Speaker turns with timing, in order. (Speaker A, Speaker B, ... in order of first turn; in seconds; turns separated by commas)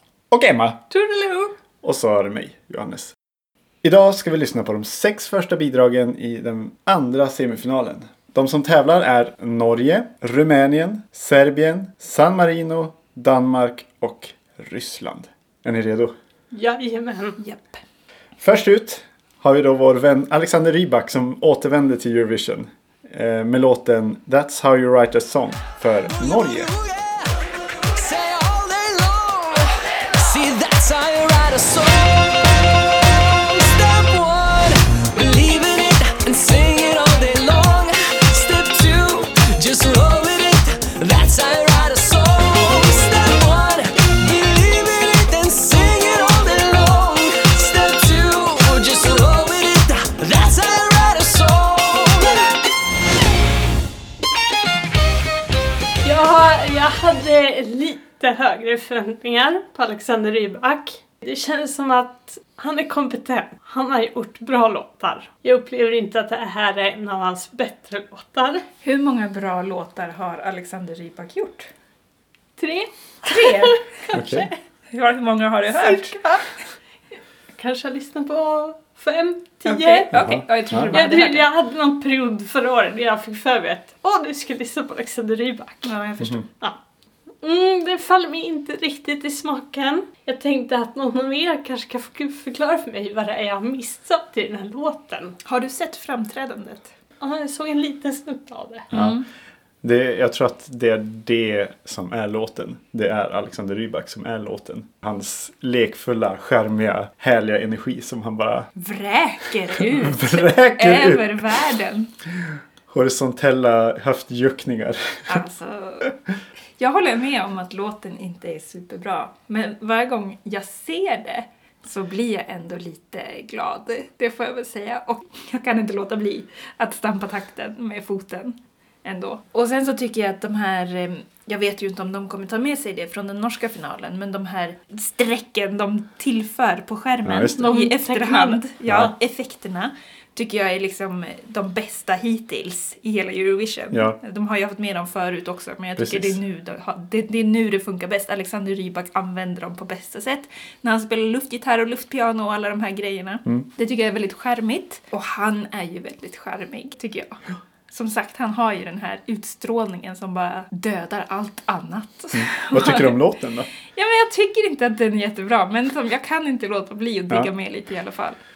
Speaker A: 0.3-0.8, Speaker B: 0.9-1.5, Speaker A: 1.8-3.1, Speaker A: 3.8-16.1, Speaker C: 16.5-17.4, Speaker B: 17.4-17.8, Speaker A: 18.4-26.7, Speaker D: 27.9-32.4, Speaker D: 33.1-52.5, Speaker C: 56.0-68.6, Speaker B: 68.8-71.7, Speaker C: 72.6-74.5, Speaker B: 73.2-76.5, Speaker A: 74.1-74.5, Speaker C: 75.8-76.2, Speaker C: 77.5-80.1, Speaker B: 79.7-81.5, Speaker A: 80.1-81.0, Speaker C: 80.9-86.0, Speaker B: 85.8-86.5, Speaker C: 87.4-95.3, Speaker B: 95.4-96.9, Speaker C: 97.2-98.9, Speaker A: 98.9-99.2, Speaker B: 98.9-99.2, Speaker A: 99.8-108.7, Speaker B: 108.8-112.1, Speaker A: 109.8-111.6, Speaker A: 112.9-115.4, Speaker B: 115.3-116.1, Speaker B: 116.8-163.2, Speaker A: 137.2-137.7, Speaker C: 137.6-138.6, Speaker A: 138.8-139.1, Speaker A: 143.9-144.2, Speaker A: 146.0-146.4, Speaker A: 162.3-163.7, Speaker B: 163.9-168.4